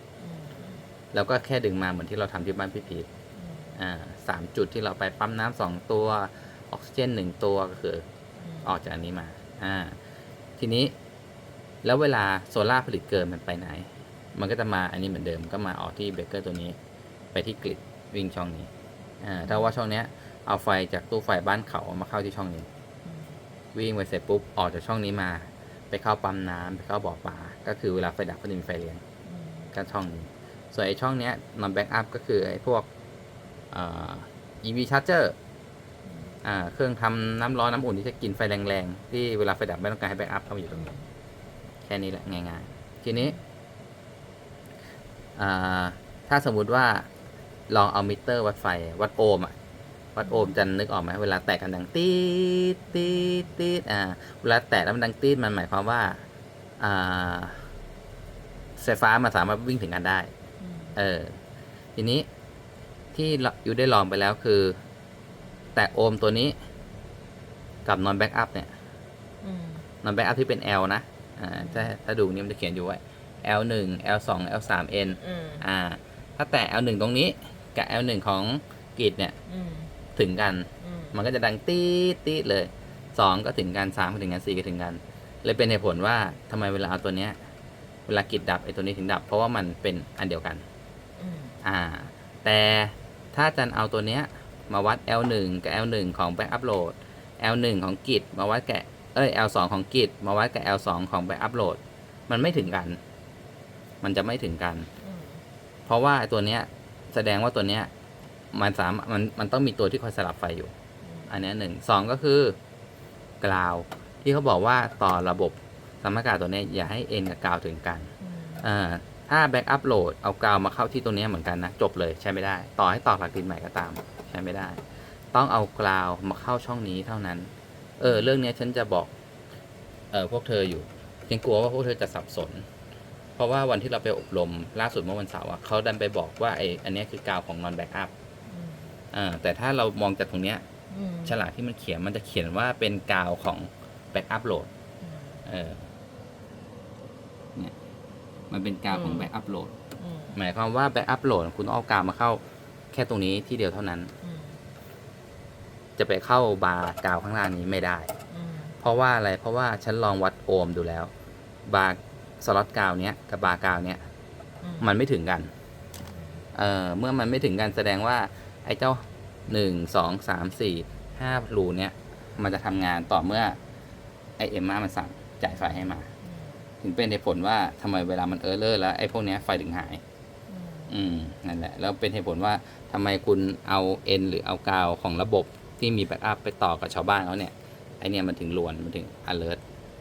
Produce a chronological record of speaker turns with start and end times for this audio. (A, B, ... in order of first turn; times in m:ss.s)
0:00.2-0:00.8 A
0:01.1-0:03.1 B
0:03.3-0:03.8 A
0:03.8-0:08.0 B
0:08.4-0:08.7 A
0:08.6-0:10.0 B
0:10.6-0:10.9 B
0:11.8-0:16.8 B
0:17.3-0:18.7 B
0:19.2-0:22.7 B
0:19.4-0:19.7 A
0:23.0-0:23.4 A
0:23.7-0:29.0 B
0:29.2-0:29.7 A
0:29.7-0:32.9 B
0:33.7-0:35.4 B
0:36.0-0:36.3 A
0:36.4-0:40.9 B
0:40.7-0:41.0 A
0:41.8-0:43.4 B
0:45.4-0:47.1 B
0:47.7-0:49.6 B
0:50.1-0:56.2 B
0:50.2-0:50.6 A
0:56.8-0:57.7 B
0:58.8-1:00.3 B
1:00.6-1:01.0 A
1:01.0-1:01.4 B
1:02.0-1:02.3 B
1:03.1-1:04.8 B
1:05.8-1:06.6 B
1:07.8-1:08.7 B
1:09.4-1:09.8 A
1:10.0-1:19.4 B
1:11.6-1:11.9 A
1:15.2-1:15.6 A
1:19.4-1:19.9 A
1:20.2-1:27.4 B
1:20.8-1:21.2 A
1:28.1-1:30.6 B
1:31.2-1:31.5 A
1:31.6-1:43.0 B
1:44.0-1:44.9 B
1:45.0-1:45.4 A
1:45.9-1:47.9 B
1:48.5-1:50.7 B
1:51.0-1:51.4 A
1:51.3-1:52.6 B
1:53.4-2:09.1 B
1:58.2-1:58.6 A
2:08.0-2:08.3 A
2:10.1-2:12.6 B
2:13.4-2:18.1 B
2:18.5-2:18.9 A
2:19.1-2:20.6 B
2:20.9-2:21.4 A
2:21.2-2:24.7 B
2:25.0-2:25.4 A
2:25.4-2:25.8 B
2:28.5-2:29.8 B
2:28.9-2:29.3 A
2:30.0-2:30.4 A
2:30.3-2:34.1 B
2:34.2-2:34.6 A
2:36.0-2:38.1 B
2:38.3-2:38.8 A
2:38.8-2:41.1 B
2:41.6-2:44.0 B
2:44.6-2:44.9 A
2:44.8-2:45.5 B
2:46.1-2:46.4 A
2:46.5-2:53.6 B
2:54.4-2:56.1 B
2:56.2-2:56.6 A
2:56.8-3:00.0 B
3:00.5-3:00.9 A
3:00.9-3:09.6 B